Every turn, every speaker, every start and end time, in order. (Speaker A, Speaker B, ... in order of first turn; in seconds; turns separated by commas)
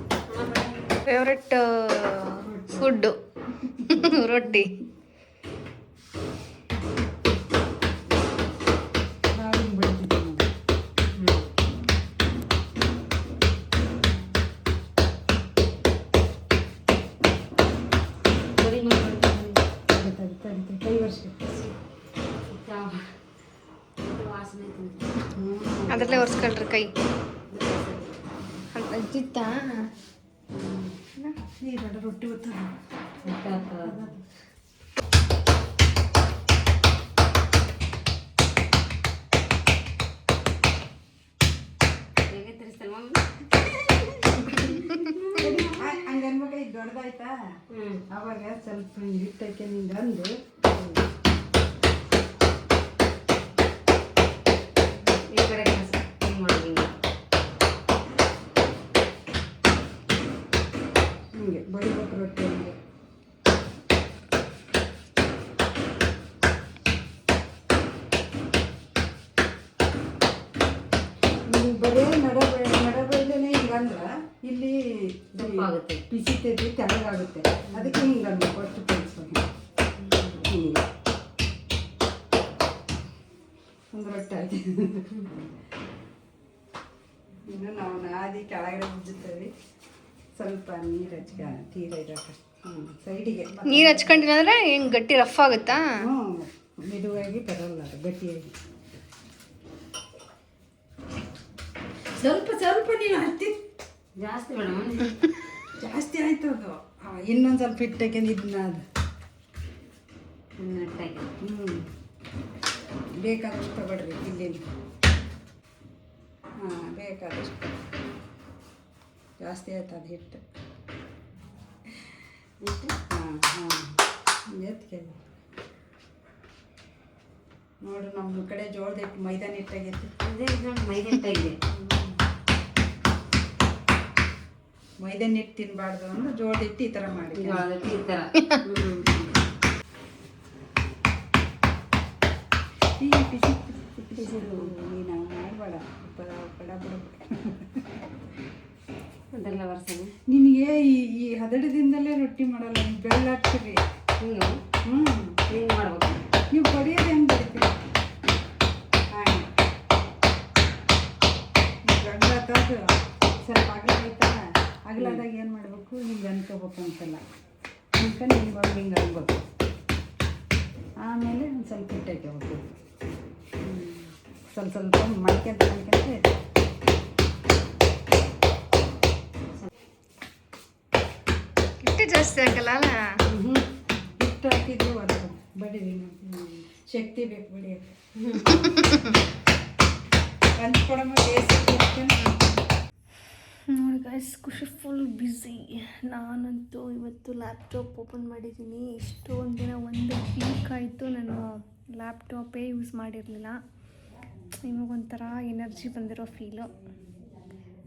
Speaker A: 0.3-1.0, Speaker B: 1.1-3.2, Speaker A: 2.5-3.0, Speaker B: 3.9-4.7, Speaker C: 9.3-10.5, Speaker A: 11.1-11.5, Speaker A: 18.6-19.6, Speaker C: 19.9-21.5, Speaker A: 21.5-21.7, Speaker A: 22.5-23.2, Speaker A: 24.0-25.2, Speaker C: 25.3-26.5, Speaker B: 25.9-26.9, Speaker C: 27.5-28.3, Speaker B: 28.7-29.9, Speaker C: 30.5-30.9, Speaker C: 31.6-34.2, Speaker A: 33.2-34.0, Speaker A: 42.3-46.0, Speaker C: 44.4-47.4, Speaker A: 47.7-48.0, Speaker C: 48.1-50.6, Speaker A: 55.2-56.9, Speaker C: 61.3-62.8, Speaker C: 71.5-79.5, Speaker A: 75.3-76.0, Speaker A: 77.7-78.0, Speaker A: 80.0-80.5, Speaker C: 80.4-80.9, Speaker C: 83.9-85.2, Speaker C: 87.5-89.5, Speaker C: 90.3-94.3, Speaker B: 93.7-96.0, Speaker C: 96.0-98.5, Speaker C: 102.2-103.7, Speaker A: 104.2-105.2, Speaker C: 105.8-108.9, Speaker A: 110.6-111.3, Speaker C: 111.4-111.9, Speaker C: 113.2-114.7, Speaker C: 116.6-117.8, Speaker C: 119.4-120.4, Speaker A: 122.6-122.9, Speaker C: 123.1-125.2, Speaker C: 127.8-130.1, Speaker A: 130.2-131.6, Speaker C: 131.7-132.2, Speaker C: 135.0-137.7, Speaker A: 137.3-139.3, Speaker C: 143.0-148.0, Speaker A: 144.3-144.7, Speaker A: 149.3-150.1, Speaker C: 150.3-153.9, Speaker A: 154.2-154.6, Speaker C: 154.8-155.4, Speaker A: 155.5-156.2, Speaker C: 156.5-157.8, Speaker C: 159.1-159.5, Speaker C: 161.8-162.9, Speaker C: 163.4-167.2, Speaker C: 167.9-169.4, Speaker C: 171.0-172.8, Speaker C: 174.5-176.4, Speaker B: 181.8-183.2, Speaker C: 183.3-188.7, Speaker A: 188.2-188.5, Speaker B: 188.5-189.2, Speaker C: 190.6-192.2, Speaker B: 192.2-192.5, Speaker B: 193.6-203.6, Speaker B: 204.7-206.7